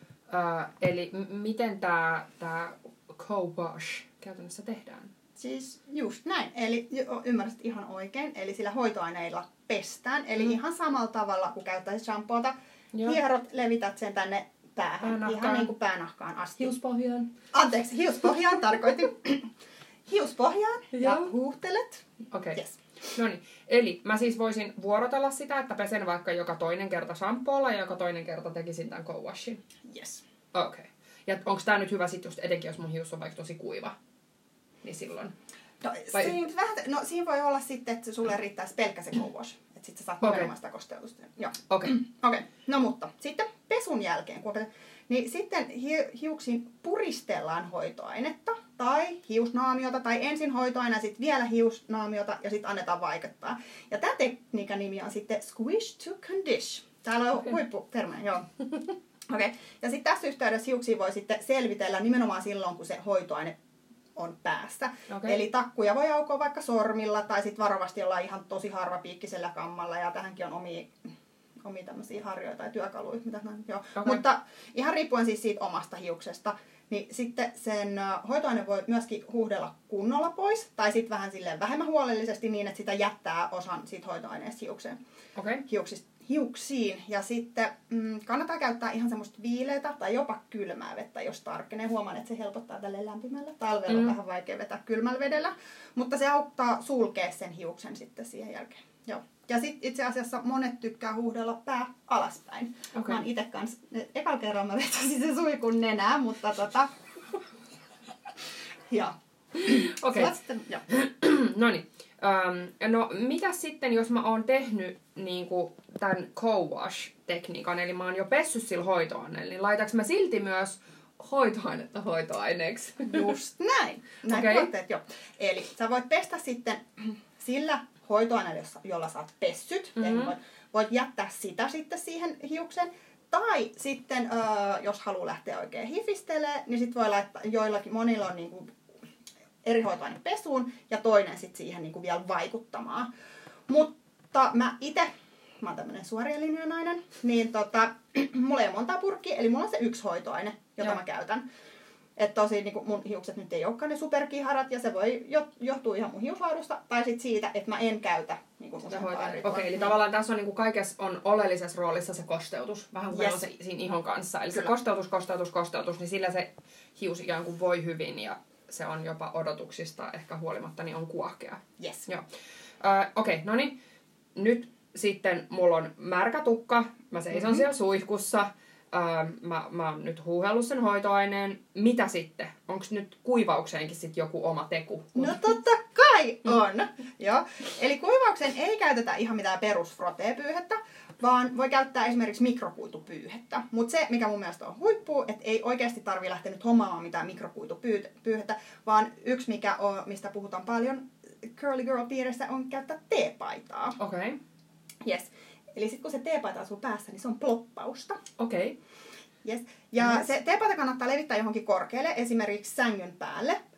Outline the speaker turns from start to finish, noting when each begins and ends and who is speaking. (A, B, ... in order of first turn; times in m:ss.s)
0:00.3-0:05.1 A
0:05.4-0:16.7 B
0:15.0-0:15.7 A
0:16.6-0:17.3 A
0:17.5-0:19.5 B
0:20.1-0:22.0 B
0:20.9-0:21.3 A
0:22.3-0:22.6 A
0:22.5-0:22.8 B
0:23.1-0:29.6 A
0:29.9-0:30.2 B
0:30.5-0:34.0 A
0:34.8-0:35.3 A
0:35.8-0:58.6 B
0:40.2-0:40.5 A
0:41.7-0:41.9 A
0:59.3-1:03.6 B
1:04.2-1:11.1 B
1:05.1-1:05.4 A
1:11.6-1:25.0 B
1:25.4-1:25.6 A
1:25.6-1:46.9 B
1:33.9-1:34.1 A
1:42.9-1:43.2 A
1:48.9-1:50.8 B
1:49.6-1:50.3 A
1:50.9-2:03.3 A
2:03.0-2:18.7 B
2:04.3-2:04.7 A
2:10.0-2:10.3 A
2:19.6-2:23.1 B
2:23.7-2:25.1 B
2:25.6-2:31.4 B
2:32.2-2:39.9 B
2:38.9-2:52.2 A
2:43.1-2:43.5 B
2:51.8-2:52.1 B
2:52.8-2:53.8 A
2:54.3-3:05.4 A
2:57.3-2:57.6 B
3:05.1-3:24.0 B
3:24.0-3:24.4 A
3:25.0-3:28.2 B
3:28.4-3:28.8 A
3:29.4-3:33.6 B